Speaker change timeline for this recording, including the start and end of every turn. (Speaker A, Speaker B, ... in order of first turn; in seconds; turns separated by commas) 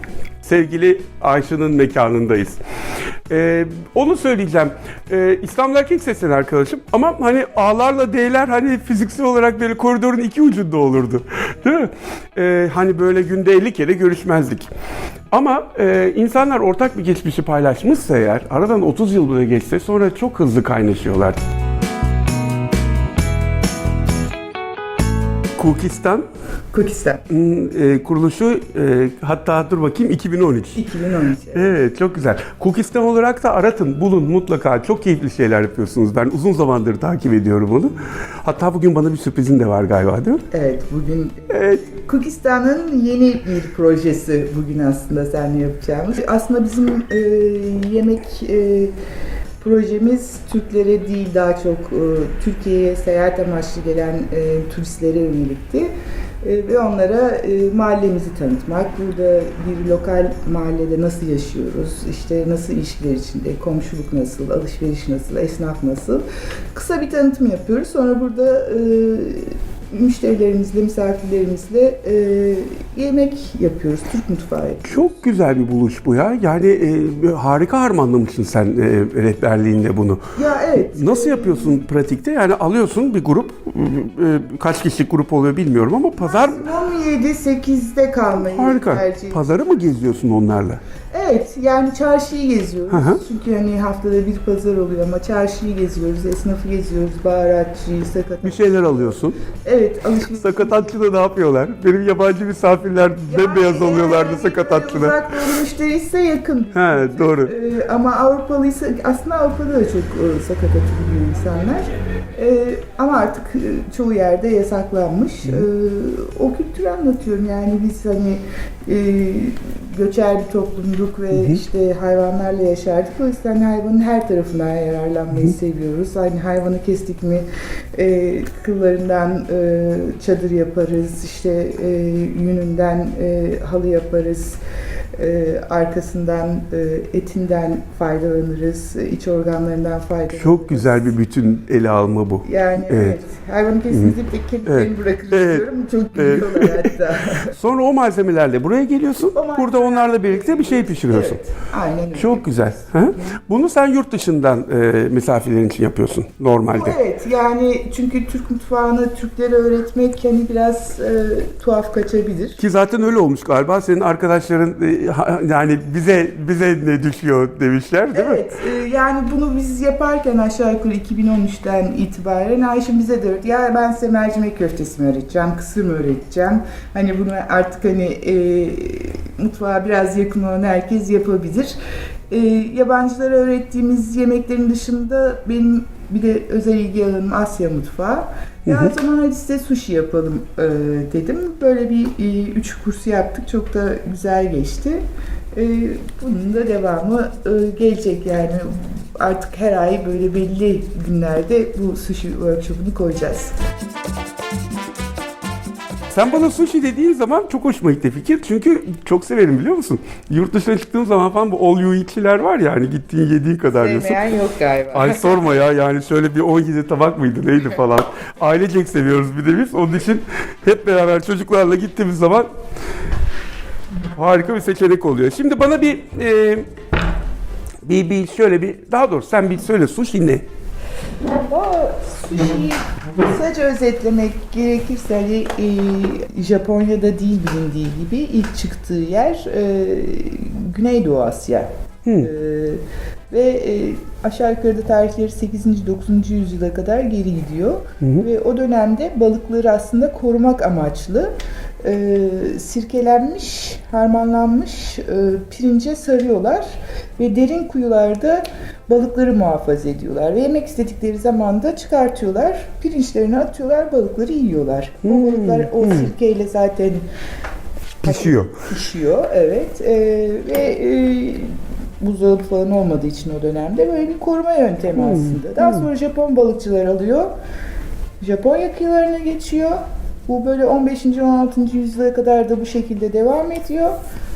Speaker A: 0.4-2.6, Speaker A: 3.3-14.7, Speaker A: 15.3-21.4, Speaker A: 25.6-26.2, Speaker B: 26.7-27.2, Speaker A: 27.3-30.8, Speaker B: 30.8-31.8, Speaker A: 31.5-40.4, Speaker B: 40.5-48.9, Speaker A: 41.5-41.8, Speaker B: 49.6-55.9, Speaker B: 56.4-75.1, Speaker A: 74.8-86.7, Speaker B: 80.3-81.8, Speaker B: 86.2-89.4, Speaker A: 88.2-90.8, Speaker B: 91.1-100.9, Speaker A: 92.9-93.2, Speaker A: 98.4-99.4, Speaker A: 100.4-105.4, Speaker B: 103.3-134.6, Speaker A: 106.7-107.5, Speaker A: 121.3-121.6, Speaker B: 135.2-141.1, Speaker A: 140.3-143.1, Speaker B: 142.4-147.5, Speaker A: 144.7-151.4, Speaker B: 149.3-153.3, Speaker A: 152.1-157.0, Speaker B: 156.7-162.6, Speaker A: 162.6-168.4, Speaker B: 168.1-181.8, Speaker B: 182.3-195.0, Speaker A: 188.7-188.9, Speaker B: 195.5-203.5, Speaker A: 206.1-214.2, Speaker B: 213.7-215.4, Speaker A: 214.9-222.5, Speaker A: 224.1-226.7, Speaker A: 227.8-230.4, Speaker B: 231.3-267.0, Speaker A: 242.0-242.3, Speaker A: 248.0-248.3, Speaker A: 265.0-266.1, Speaker A: 268.0-268.5, Speaker B: 268.0-277.3, Speaker A: 274.9-275.9, Speaker B: 278.2-283.9